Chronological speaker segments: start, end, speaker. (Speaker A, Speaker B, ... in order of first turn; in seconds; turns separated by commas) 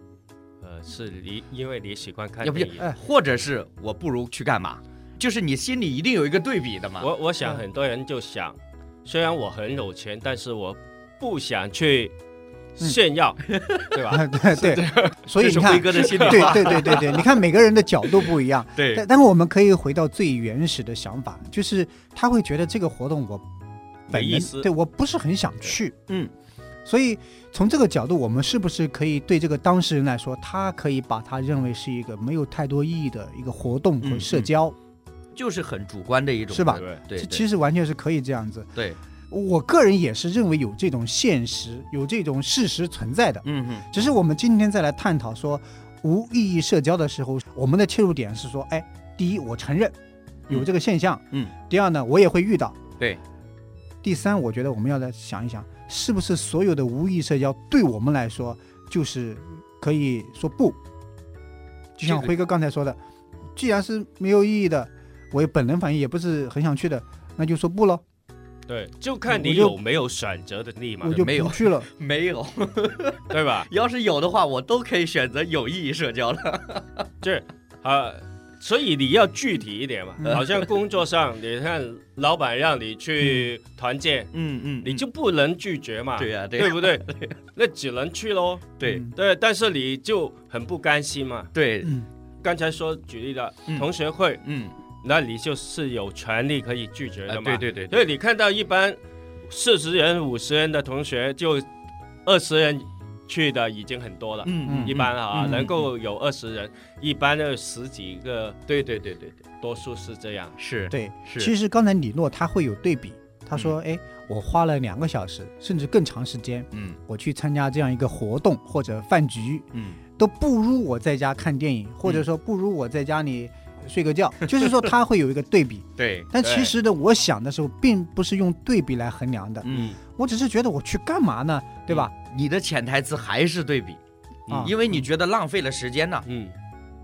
Speaker A: 0.6-2.8, Speaker B: 2.4-7.1, Speaker A: 7.0-12.1, Speaker A: 12.8-13.4, Speaker B: 13.5-14.0, Speaker A: 13.9-15.1, Speaker C: 14.1-23.4, Speaker B: 14.6-17.3, Speaker A: 15.9-17.0, Speaker B: 18.7-19.0, Speaker C: 24.1-26.0, Speaker A: 24.1-24.7, Speaker C: 26.9-34.7, Speaker B: 34.0-34.5, Speaker B: 35.3-37.5, Speaker C: 36.5-38.7, Speaker A: 36.7-37.0, Speaker C: 39.3-49.9, Speaker B: 43.4-44.0, Speaker C: 50.5-52.8, Speaker C: 54.0-60.8, Speaker C: 62.0-63.0, Speaker C: 63.5-68.0, Speaker A: 68.7-71.2, Speaker C: 69.3-69.8, Speaker C: 71.0-71.9, Speaker B: 71.1-77.0, Speaker A: 73.3-73.7, Speaker A: 77.2-84.3, Speaker B: 80.2-80.7, Speaker B: 84.3-85.0, Speaker A: 84.8-91.5, Speaker B: 86.2-87.4, Speaker B: 88.8-89.0, Speaker C: 88.8-89.1, Speaker B: 91.5-91.9, Speaker C: 91.8-92.1, Speaker A: 92.4-94.4, Speaker B: 94.4-94.7, Speaker A: 95.0-101.7, Speaker B: 97.3-98.0, Speaker A: 102.2-108.6, Speaker B: 104.4-105.6, Speaker C: 104.6-105.7, Speaker B: 108.7-109.4, Speaker A: 109.6-110.5, Speaker B: 110.6-111.5, Speaker C: 110.9-132.1, Speaker B: 116.7-117.0, Speaker B: 119.7-120.0, Speaker B: 126.0-126.5, Speaker A: 126.4-126.7, Speaker B: 129.6-129.9, Speaker A: 129.7-129.9, Speaker B: 131.9-134.0, Speaker B: 134.6-136.2, Speaker A: 136.2-136.5